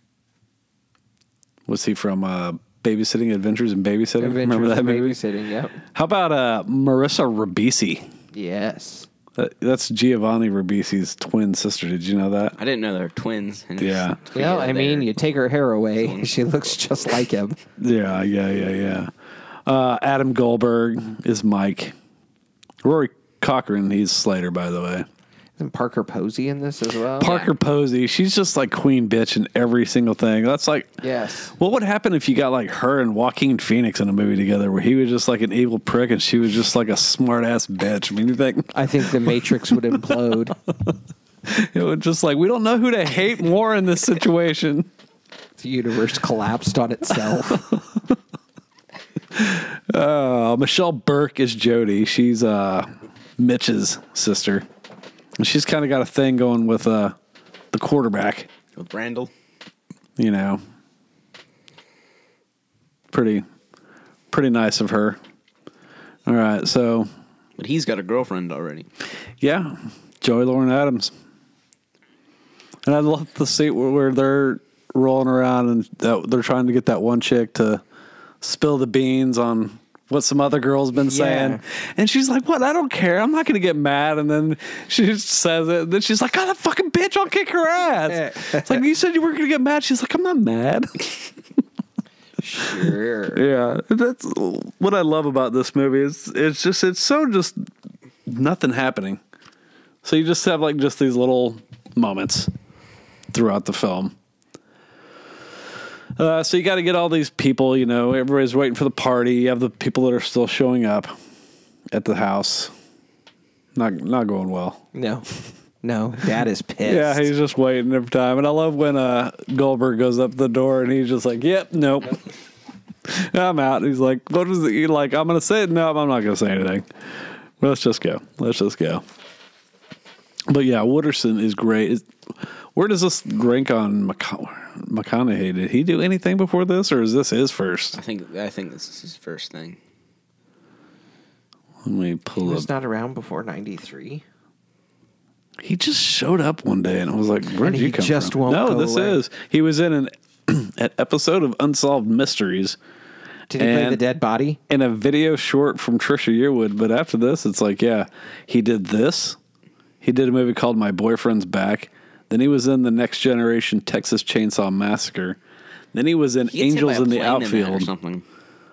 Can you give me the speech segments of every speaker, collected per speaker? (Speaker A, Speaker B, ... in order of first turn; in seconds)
Speaker A: 1.7-5.2, 5.9-8.1, 9.4-12.6, 13.8-14.2, 17.8-19.1, 19.6-21.9, 22.8-25.1, 27.2-31.0, 31.6-40.1, 40.7-40.9, 41.5-44.9, 47.5-48.1, 49.3-54.7, 55.4-57.1, 57.7-58.5, 60.2-60.6, 63.1-63.5, 64.3-65.2, 66.3-67.1, 69.4-71.1, 72.8-77.8, 78.4-91.3, 93.3-97.7, 98.3-99.2, 100.0-102.5, 103.3-104.1, 106.2-111.1, 111.9-112.7, 113.8-114.8, 116.8-122.2, 123.0-126.9, 127.6-129.0, 130.5-132.1, 132.8-138.0, 141.8-142.7, 145.6-152.8, 153.6-154.0, 154.7-159.4, 160.0-165.4, 165.9-167.9
Speaker B: 4.2-5.8, 8.3-9.1, 14.3-17.6, 25.6-27.5, 31.0-31.5, 38.7-40.6, 45.6-47.6, 80.9-81.6, 88.1-88.8, 92.4-93.4, 114.9-115.2, 115.8-117.3, 142.4-144.2, 147.6-149.2, 153.5-154.6
Speaker C: 12.6-15.1, 16.0-16.3, 58.8-59.3, 67.6-68.9, 137.9-139.8, 166.5-168.2